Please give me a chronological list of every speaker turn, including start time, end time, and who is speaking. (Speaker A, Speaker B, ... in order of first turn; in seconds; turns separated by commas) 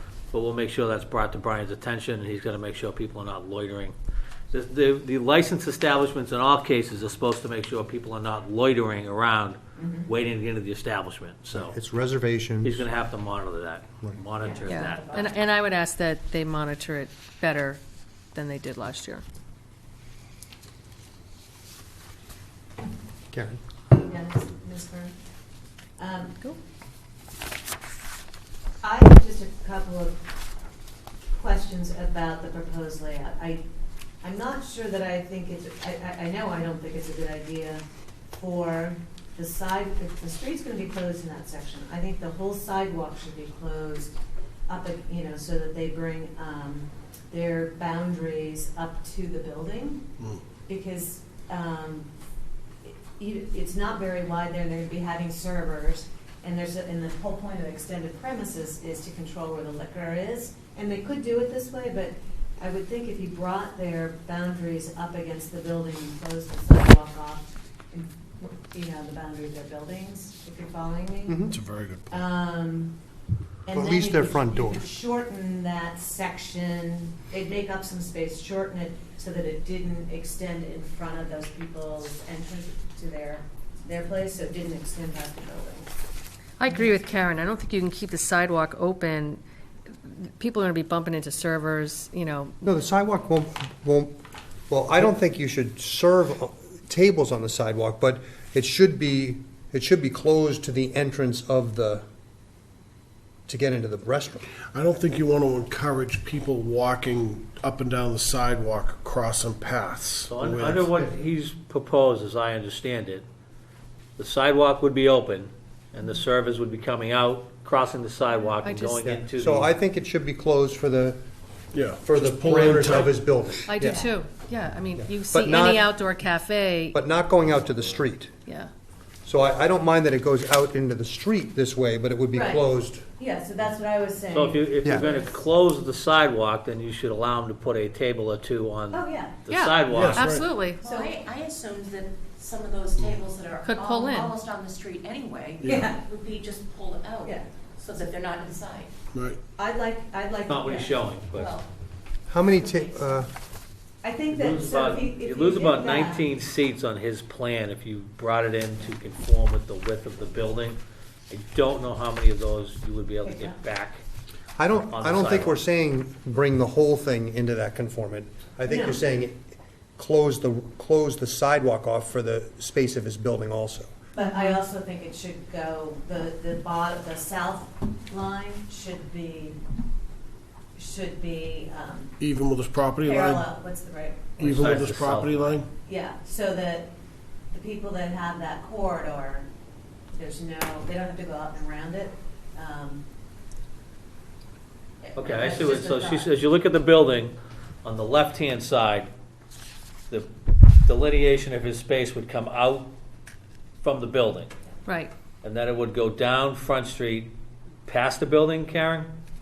Speaker A: 0.3-3.9, Speaker A: 4.5-11.8, Speaker B: 9.8-10.1, Speaker C: 11.6-12.8, Speaker A: 12.6-15.3, Speaker B: 14.4-15.3, Speaker D: 14.7-17.8, Speaker D: 18.3-19.2, Speaker C: 23.3-23.6, Speaker B: 24.0-25.1, Speaker B: 26.0-26.4, Speaker B: 28.8-30.2, Speaker B: 31.3-33.6, Speaker B: 34.2-44.1, Speaker B: 44.7-50.0, Speaker B: 50.7-52.1, Speaker B: 52.9-71.5, Speaker C: 71.3-71.5, Speaker E: 71.5-72.2, Speaker B: 72.1-73.0, Speaker B: 73.7-85.9, Speaker C: 73.7-74.8, Speaker D: 86.6-89.4, Speaker D: 90.1-92.6, Speaker C: 92.6-94.2, Speaker C: 94.7-102.0, Speaker C: 103.5-104.5, Speaker E: 104.7-111.0, Speaker A: 110.3-113.2, Speaker A: 114.2-119.7, Speaker D: 118.6-119.1, Speaker C: 119.0-121.2, Speaker E: 121.7-123.2, Speaker C: 122.0-124.1, Speaker D: 123.7-127.0, Speaker B: 123.8-124.1, Speaker C: 125.0-125.9, Speaker C: 126.9-128.3, Speaker D: 128.5-128.7, Speaker C: 129.2-133.0, Speaker B: 132.3-135.3, Speaker A: 134.3-140.3, Speaker B: 138.9-139.4, Speaker D: 139.5-140.8, Speaker E: 139.9-140.5, Speaker F: 140.8-148.9, Speaker B: 140.8-141.2, Speaker D: 143.7-144.3, Speaker E: 145.6-145.9, Speaker B: 145.6-146.0, Speaker E: 149.1-149.4, Speaker B: 149.6-151.0, Speaker A: 150.5-151.6, Speaker F: 151.3-151.7, Speaker C: 152.3-153.3, Speaker B: 154.0-156.3, Speaker A: 154.3-160.8, Speaker A: 161.3-164.0, Speaker B: 163.2-163.6, Speaker C: 164.6-173.9, Speaker A: 164.9-165.6, Speaker B: 168.7-169.0, Speaker B: 174.2-179.6, Speaker B: 180.8-182.2, Speaker E: 182.2-183.5, Speaker B: 183.0-184.5, Speaker E: 184.4-185.7, Speaker A: 184.4-185.6, Speaker B: 185.8-186.9, Speaker B: 187.5-189.5, Speaker B: 190.1-193.0, Speaker B: 195.0-196.3, Speaker A: 195.2-199.1, Speaker A: 200.8-202.9, Speaker A: 203.8-204.5, Speaker D: 204.9-205.1, Speaker A: 205.4-207.3, Speaker A: 207.9-209.1